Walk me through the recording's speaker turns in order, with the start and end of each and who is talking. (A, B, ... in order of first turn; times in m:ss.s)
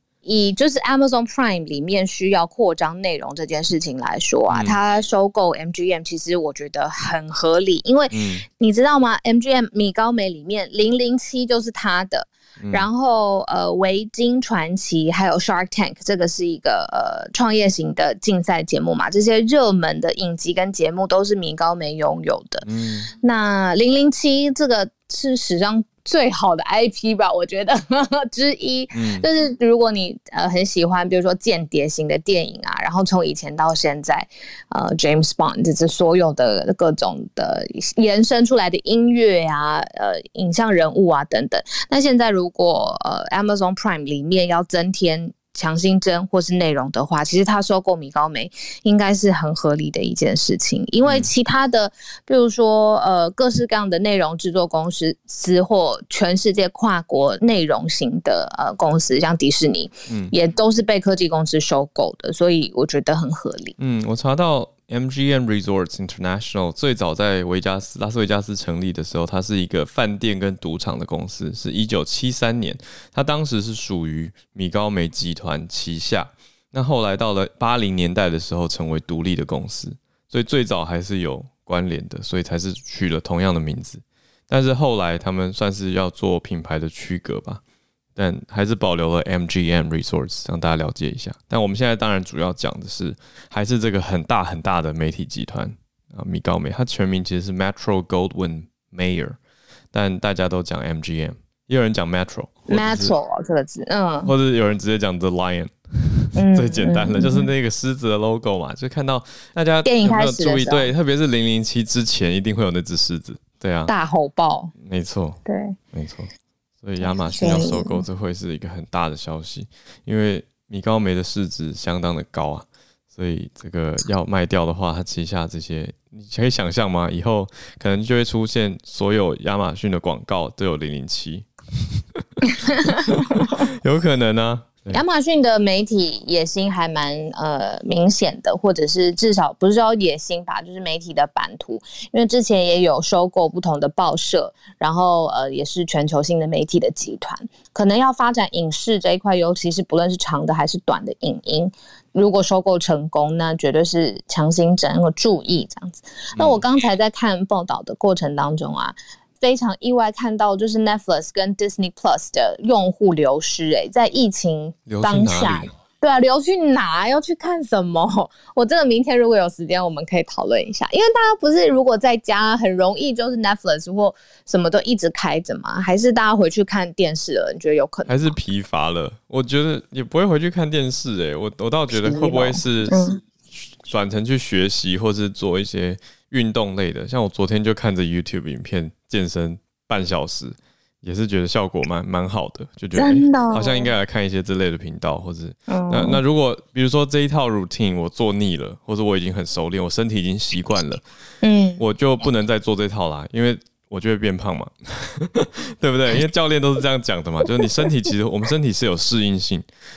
0:00.2-1:03.7 A
0:04.5-0:04.8 B
0:08.1-0:08.4 B
0:12.6-0:12.9 B
0:22.6-0:23.1 B
0:28.9-0:29.2 B
0:51.0-0:51.3 B
1:00.1-1:00.3 B
1:03.8-1:27.6 B
1:28.2-1:39.4 B
1:39.9-1:43.1 B
1:42.7-1:44.3 A
1:44.2-1:53.9 B
1:46.3-1:47.5 A
1:49.8-1:50.9 A
1:53.9-1:54.7 A
1:54.8-1:55.4 B
1:55.4-1:55.8 A
1:55.9-1:56.3 B
1:56.8-2:11.5 B
1:57.0-1:58.0 A
2:12.2-2:15.0 B
2:14.9-2:58.3 A
2:36.4-2:36.6 B
2:44.9-2:45.7 B
2:58.1-3:21.0 B
3:02.0-3:03.2 A
3:12.9-3:13.9 A
3:15.7-3:16.2 A
3:21.4-3:21.8 A
3:21.8-3:29.6 B